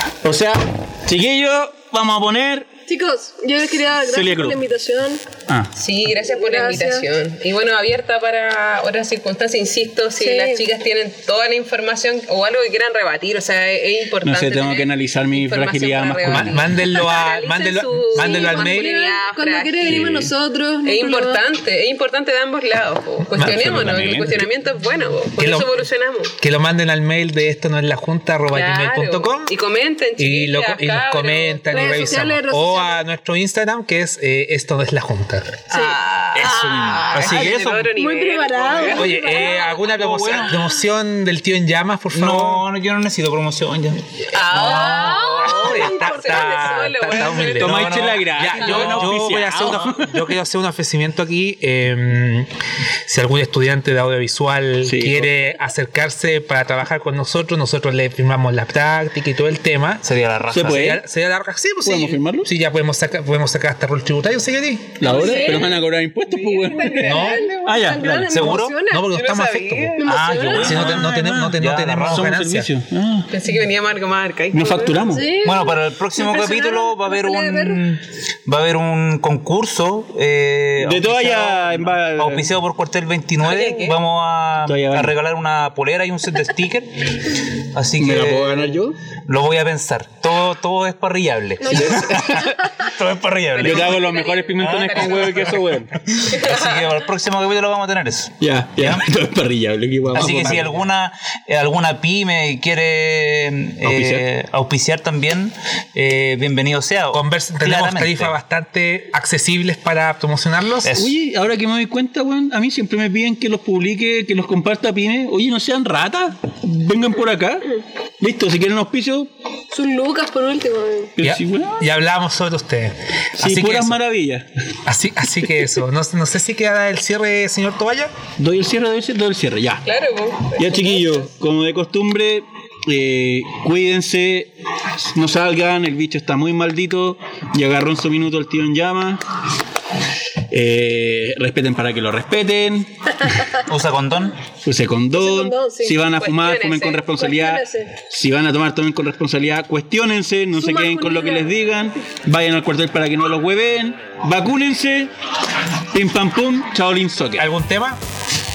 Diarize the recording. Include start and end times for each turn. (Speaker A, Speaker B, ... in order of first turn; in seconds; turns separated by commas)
Speaker A: 0.2-2.7, Speaker B: 2.9-5.2, Speaker A: 4.0-4.6, Speaker C: 5.7-20.1, Speaker B: 6.3-7.1, Speaker B: 10.2-10.7, Speaker A: 14.2-16.8, Speaker D: 16.3-18.9, Speaker B: 18.1-21.4, Speaker A: 19.9-20.3, Speaker C: 20.8-26.4, Speaker D: 23.3-24.1, Speaker E: 23.5-24.4, Speaker D: 25.4-25.8, Speaker D: 26.4-29.6, Speaker C: 28.5-31.7, Speaker D: 30.2-35.7, Speaker B: 31.7-33.0, Speaker C: 35.7-39.4, Speaker B: 35.7-36.0, Speaker E: 36.4-37.1, Speaker D: 36.4-37.7, Speaker A: 37.1-37.9, Speaker B: 37.4-39.7, Speaker D: 38.8-42.6, Speaker E: 39.7-40.5, Speaker A: 40.0-40.6, Speaker E: 42.1-44.2, Speaker C: 44.3-48.0, Speaker D: 44.4-52.5, Speaker B: 44.5-47.4, Speaker A: 47.5-50.4, Speaker E: 47.6-49.1, Speaker D: 53.1-65.1, Speaker A: 54.9-55.4, Speaker E: 60.0-60.9, Speaker A: 60.5-61.0, Speaker A: 61.8-62.5, Speaker A: 65.0-68.6, Speaker B: 65.0-65.9, Speaker C: 65.1-68.0, Speaker B: 66.5-69.1, Speaker D: 67.0-67.5, Speaker E: 68.3-68.8, Speaker D: 68.8-72.7, Speaker C: 69.1-70.2, Speaker B: 70.0-70.8, Speaker E: 70.0-72.3, Speaker A: 70.6-73.3, Speaker C: 73.3-75.1, Speaker A: 74.5-75.4, Speaker B: 75.0-77.8, Speaker E: 75.4-94.0, Speaker A: 80.8-82.5, Speaker C: 83.4-84.0, Speaker A: 84.6-85.2, Speaker A: 88.0-89.0, Speaker B: 91.6-92.5, Speaker A: 91.7-92.6, Speaker C: 93.6-95.6, Speaker A: 93.6-96.0, Speaker E: 94.6-99.1, Speaker C: 96.3-96.8, Speaker A: 98.4-100.8, Speaker E: 100.1-108.3, Speaker A: 103.8-104.3, Speaker D: 107.1-111.0, Speaker E: 110.8-111.1, Speaker A: 110.9-119.3, Speaker B: 119.7-121.2, Speaker A: 121.2-121.8, Speaker D: 121.2-124.0, Speaker A: 123.4-124.5, Speaker D: 124.9-128.1, Speaker A: 128.4-129.8, Speaker C: 129.8-131.3, Speaker A: 130.6-139.2, Speaker A: 140.5-143.2, Speaker E: 143.6-144.4, Speaker A: 144.6-155.1, Speaker B: 145.1-146.0, Speaker C: 146.1-147.1, Speaker B: 147.2-147.9, Speaker B: 150.6-151.5, Speaker A: 155.9-157.5, Speaker D: 157.4-158.0